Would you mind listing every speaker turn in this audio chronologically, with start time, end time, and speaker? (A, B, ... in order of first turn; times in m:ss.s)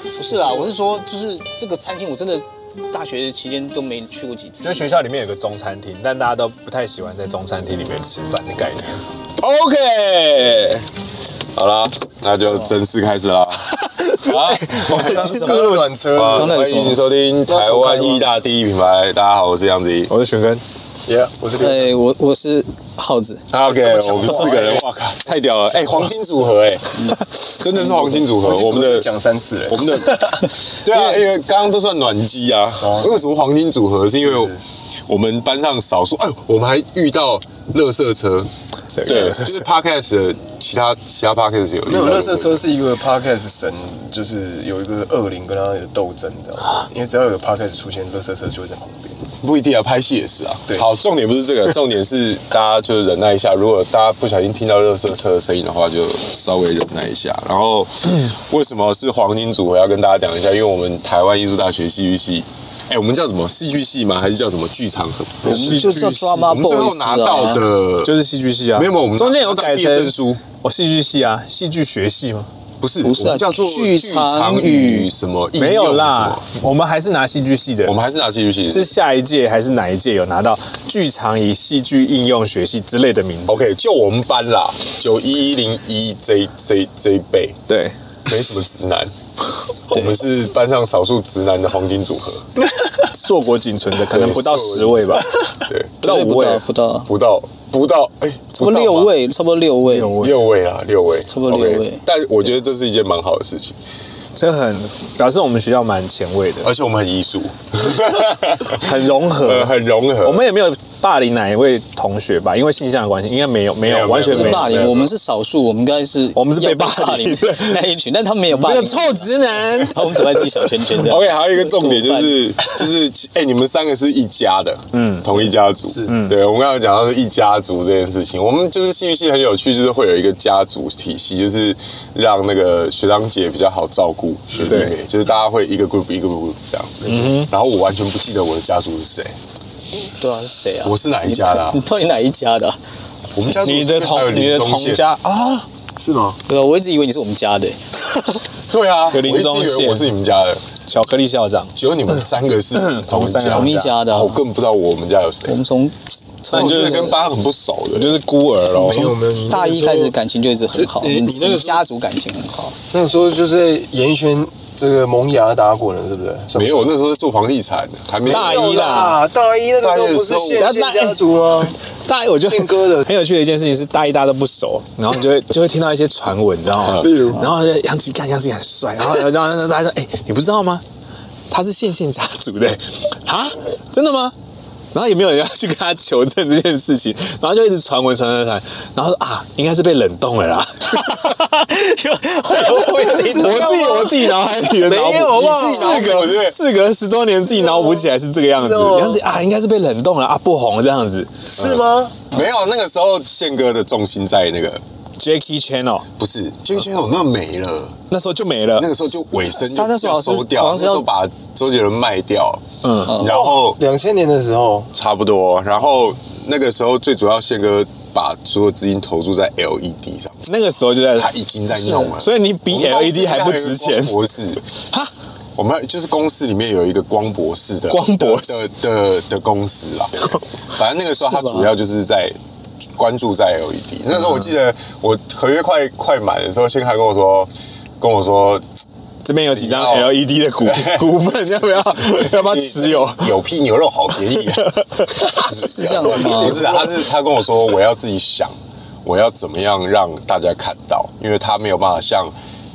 0:00.2-0:04.8 A
0:00.3-0:00.6 B
0:04.6-0:10.8 C
0:09.6-0:10.3 B
0:11.5-0:20.1 B
0:13.6-0:16.0 C
0:14.9-0:16.6 D
0:16.3-0:17.0 A
0:17.5-0:18.3 D
0:20.1-0:20.6 C
0:21.0-0:22.0 D
0:21.6-0:23.5 A
0:23.5-0:29.1 B
0:23.7-0:24.9 D
0:27.7-0:30.4 D
0:29.7-0:42.7 B
0:32.8-0:33.2 D
0:34.2-0:34.6 D
0:39.0-0:39.6 C
0:41.9-0:49.2 D
0:49.4-1:08.2 B
1:05.4-1:07.6 A
1:05.5-1:06.4 C
1:08.0-1:12.5 C
1:08.7-1:10.4 B
1:12.8-1:16.4 B
1:13.0-1:15.1 A
1:15.6-1:18.0 C
1:17.8-1:18.9 B
1:18.7-1:23.6 C
1:23.5-1:27.6 B
1:27.7-1:28.0 C
1:28.2-1:29.1 B
1:29.9-1:32.5 B
1:29.9-1:30.2 A
1:33.0-1:35.3 C
1:34.0-1:36.0 B
1:36.0-1:37.1 A
1:36.0-1:36.6 C
1:37.1-1:39.1 B
1:38.6-1:40.3 A
1:40.0-1:40.3 C
1:40.1-1:43.8 B
1:41.3-1:42.0 A
1:44.3-1:46.7 C
1:46.6-1:50.4 B
1:48.7-1:54.9 C
1:53.8-1:55.1 B
1:54.2-2:02.4 A
1:56.3-1:57.9 C
1:58.5-2:00.5 C
2:00.9-2:19.3 B
2:04.9-2:05.5 C
2:06.0-2:06.4 C
2:14.6-2:15.0 C
2:17.1-2:17.5 C
2:20.1-2:22.8 A
2:20.8-2:21.8 B
2:23.3-2:25.0 B
2:23.5-2:25.7 C
2:26.0-2:26.4 D
2:26.5-2:27.8 A
2:28.7-2:30.6 B
2:29.1-2:30.1 C
2:30.9-2:32.2 C
2:31.8-2:35.6 B
2:32.7-2:34.0 C
2:33.5-2:34.4 A
2:35.5-2:37.1 A
2:36.5-2:37.1 C
2:36.5-2:38.2 B
2:37.9-2:39.2 C
2:38.7-2:40.2 D
2:39.5-2:42.8 A
2:40.7-2:41.8 D
2:42.9-2:46.9 D
2:46.5-2:49.1 B
2:48.2-2:51.8 D
2:48.2-2:49.2 C
2:49.8-2:50.8 B
2:50.6-2:51.2 C
2:51.9-3:00.8 C
2:52.4-2:53.1 D
2:56.8-2:57.1 B
2:57.0-2:57.5 D
3:01.5-3:04.3 C
3:04.9-3:11.6 C
3:11.2-3:13.7 A
3:12.5-3:21.6 C
3:12.7-3:16.2 D
3:15.3-3:16.6 B
3:17.7-3:18.0 D
3:18.6-3:19.2 D
3:21.6-3:22.2 D
3:21.6-3:24.8 B
3:25.2-3:26.1 C
3:26.2-3:28.0 B
3:28.1-3:29.0 C
3:28.8-3:33.8 B
3:29.6-3:31.0 A
3:32.8-3:33.2 C
3:33.1-3:33.3 A
3:33.1-3:34.9 D
3:34.9-3:40.5 B
3:40.5-3:41.3 C
3:41.1-3:44.7 B
3:41.9-3:44.2 C
3:44.7-3:45.1 C
3:45.6-3:52.4 B
3:47.9-3:48.7 C
3:53.0-3:58.6 B
3:59.2-4:03.4 C
3:59.5-4:01.2 B
4:01.8-4:12.3 B
4:04.3-4:05.4 C
4:05.4-4:06.8 A
4:06.2-4:06.8 D